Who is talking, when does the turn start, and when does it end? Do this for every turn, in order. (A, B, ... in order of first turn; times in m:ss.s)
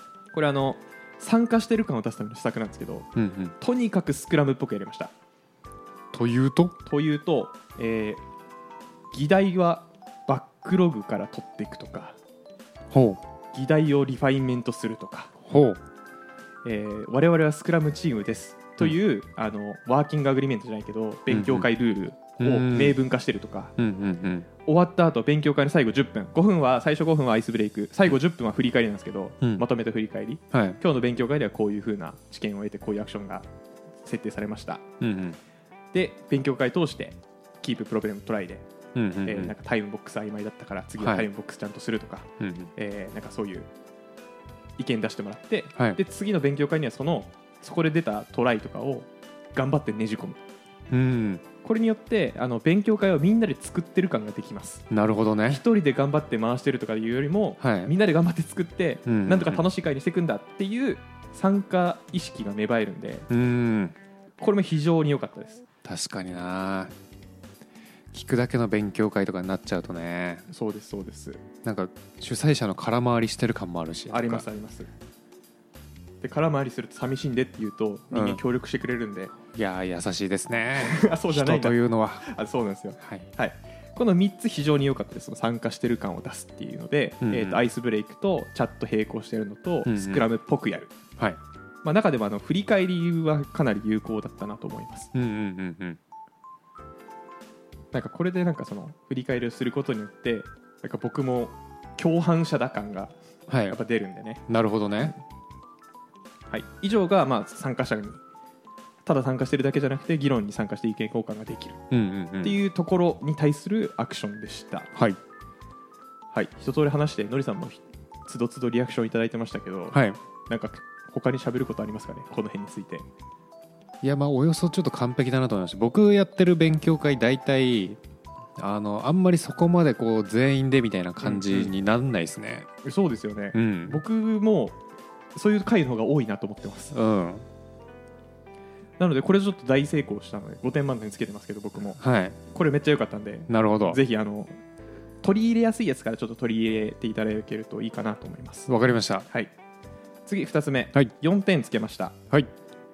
0:00.3-0:03.1 A
0:03.2-0:03.5 B
0:03.6-0:05.1 A
0:06.1-0:06.7 B
0:06.8-0:08.2 A
0:09.1-0:12.2 A
0:12.9-0:13.2 B
0:13.5-0:15.3 A
0:15.4-0:15.8 B
0:16.6-0:23.8 A
0:21.3-0:21.7 B
0:22.4-0:23.0 B
0:23.8-0:24.5 B
0:24.6-0:33.5 A
0:30.5-0:30.8 B
0:34.0-0:34.8 A
0:35.0-0:35.4 B
0:35.9-0:38.6 A
0:38.9-0:39.5 B
0:39.2-0:43.7 A
0:41.0-0:41.3 B
0:42.4-0:42.7 B
0:44.8-0:50.4 A
0:50.9-0:51.4 B
0:51.6-0:54.8 A
0:54.9-0:55.6 B
0:55.4-1:03.3 A
0:57.6-0:57.9 B
0:59.0-0:59.6 B
1:03.3-1:03.9 B
1:04.4-1:05.6 A
1:05.8-1:06.9 B
1:08.1-1:10.5 B
1:10.5-1:11.4 A
1:11.6-1:14.4 B
1:14.1-1:14.9 A
1:16.2-1:19.3 A
1:18.1-1:18.4 B
1:19.5-1:22.3 B
1:20.8-1:30.9 A
1:23.0-1:23.3 B
1:27.2-1:27.6 B
1:29.8-1:30.2 B
1:31.8-1:35.1 A
1:35.1-1:36.0 B
1:37.9-1:43.1 A
1:43.5-1:43.8 B
1:43.7-1:44.4 A
1:44.5-1:45.1 B
1:46.5-1:48.2 A
1:49.0-1:51.8 A
1:51.9-1:52.6 B
1:52.4-1:54.9 A
1:56.3-2:03.0 A
1:59.9-2:00.2 B
2:04.0-2:08.0 B
2:08.6-2:12.7 B
2:11.2-2:11.7 A
2:12.8-2:14.8 A
2:13.5-2:14.0 B
2:15.3-2:16.9 A
2:16.9-2:17.5 B
2:19.0-2:24.6 A
2:22.0-2:22.4 B
2:23.5-2:24.0 B
2:25.2-2:28.7 A
2:28.7-2:29.3 B
2:30.2-2:32.2 A